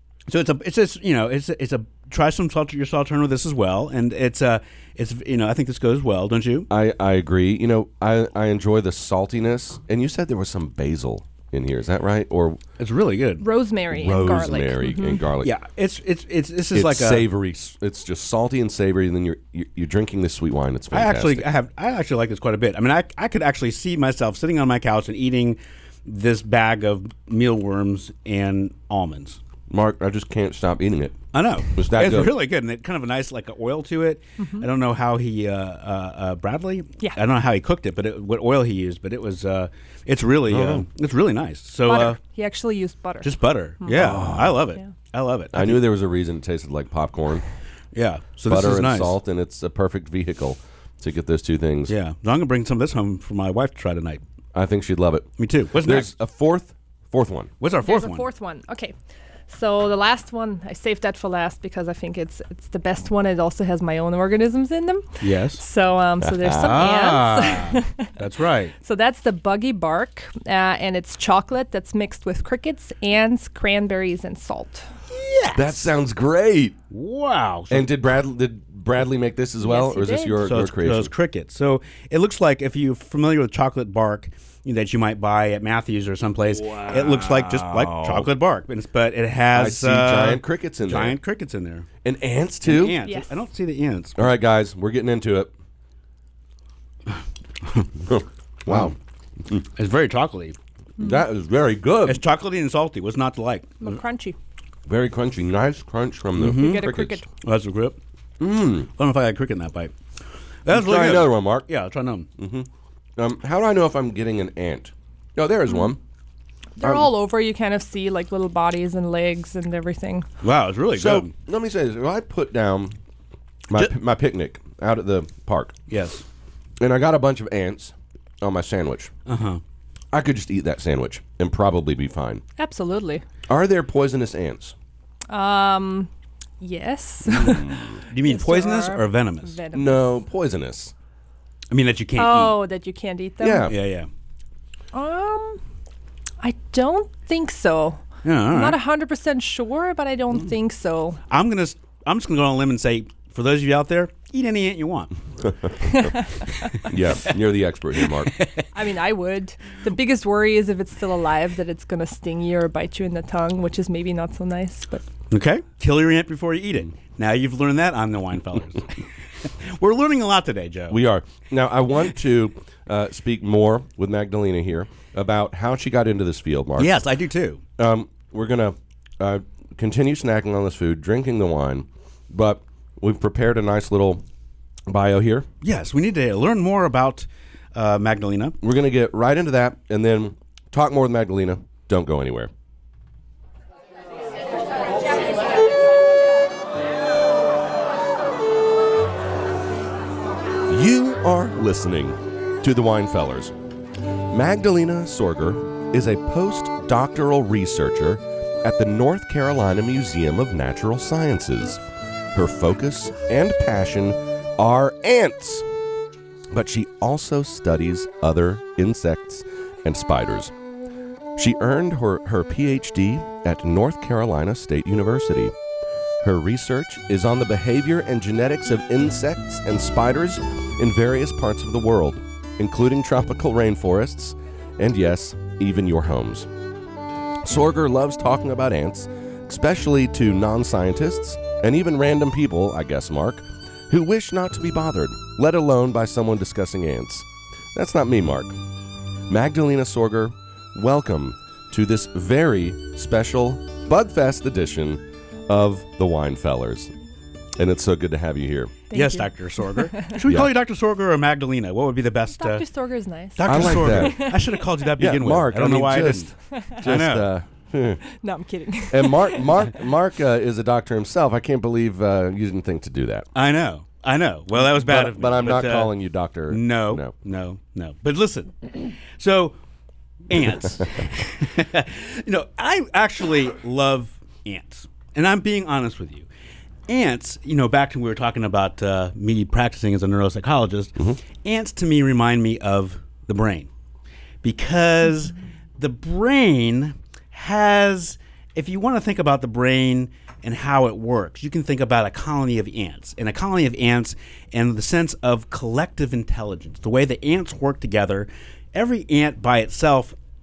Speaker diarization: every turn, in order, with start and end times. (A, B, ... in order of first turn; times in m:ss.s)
0:00.3-0:06.7 A
0:06.7-0:12.6 B
0:12.8-0:13.4 A
0:13.4-0:15.3 C
0:13.9-0:15.5 B
0:15.4-0:17.3 A
0:16.7-0:21.4 B
0:20.9-0:29.4 A
0:29.7-0:32.3 B
0:31.3-0:42.2 A
0:34.4-0:34.7 C
0:40.5-0:40.8 B
0:41.9-0:43.3 C
0:43.2-0:45.8 A
0:43.8-0:44.9 C
0:43.9-0:44.6 B
0:45.5-0:47.4 B
0:47.9-0:49.2 A
0:48.5-0:51.9 B
0:51.9-0:54.2 A
0:54.5-0:57.5 B
0:55.4-0:56.1 A
0:57.6-0:58.2 A
0:57.8-0:58.9 C
0:59.5-1:08.1 C
1:05.2-1:05.6 A
1:06.2-1:06.9 B
1:06.6-1:08.7 A
1:08.8-1:14.8 C
1:15.1-1:15.9 A
1:15.5-1:16.8 B
1:16.9-1:17.9 A
1:17.7-1:21.1 B
1:19.6-1:20.4 C
1:20.4-1:31.8 A
1:26.5-1:28.3 B
1:29.5-1:31.2 B
1:32.0-1:33.0 B
1:32.6-1:34.3 A
1:33.0-1:33.3 C
1:34.2-1:35.5 B
1:38.1-1:38.9 B
1:38.7-1:38.9 A
1:39.8-1:40.6 A
1:41.0-1:41.2 C
1:41.0-1:42.2 B
1:42.0-1:44.0 A
1:43.8-1:44.4 C
1:44.9-1:47.2 B
1:46.4-1:46.9 A
1:46.4-1:47.3 C
1:47.4-1:48.0 A
1:48.4-1:48.9 B
1:49.0-1:49.9 A
1:50.6-1:52.3 A
1:50.7-1:51.7 B
1:52.4-1:56.0 B
1:56.8-2:00.3 C
1:56.8-1:57.1 B
2:00.4-2:01.3 A
2:00.9-2:03.0 B
2:03.7-2:05.7 B
2:05.9-2:06.2 A
2:06.8-2:09.1 B
2:09.3-2:09.6 A
2:10.1-2:12.4 B
2:12.6-2:13.2 C
2:13.5-2:14.7 B
2:15.3-2:20.2 C
2:17.2-2:18.0 B
2:18.1-2:19.6 A
2:19.7-2:20.9 B
2:21.7-2:22.6 A
2:22.2-2:23.7 C
2:23.4-2:23.7 B
2:23.6-2:24.1 A
2:24.9-2:25.6 C
2:26.4-2:31.2 C
2:28.2-2:28.8 A
2:31.3-2:35.1 A
2:35.4-2:36.1 B
2:35.8-2:36.7 C
2:36.8-2:38.3 B
2:38.0-2:38.6 A
2:38.7-2:45.0 C
2:45.3-2:51.0 A
2:50.9-2:57.0 B
2:56.8-2:57.6 A
2:57.8-3:04.2 B
3:04.9-3:05.5 B
3:05.6-3:08.6 A
3:08.6-3:12.5 B
3:20.7-3:23.5 B
3:24.3-3:31.8 B
3:32.3-3:35.6 B
3:36.5-3:40.5 B
3:41.4-3:45.5 B
3:46.2-3:56.5 B
3:57.4-4:08.6 B
4:09.3-4:16.9 B
4:17.6-4:18.7 B
4:18.9-4:20.2 C
4:18.9-4:22.6 A
4:20.2-4:20.5 B
4:22.4-4:24.6 C
4:23.4-4:26.3 A
4:23.4-4:24.3 B
4:25.0-4:28.0 B
4:26.5-4:26.8 C
4:26.8-4:27.3 A
4:28.1-4:29.7 C
4:28.9-4:33.3 B
4:33.3-4:35.9 A
4:34.6-4:37.1 B
4:36.5-4:39.6 A
4:40.3-4:46.3 A
4:46.9-4:53.7 A
4:54.4-5:10.2 A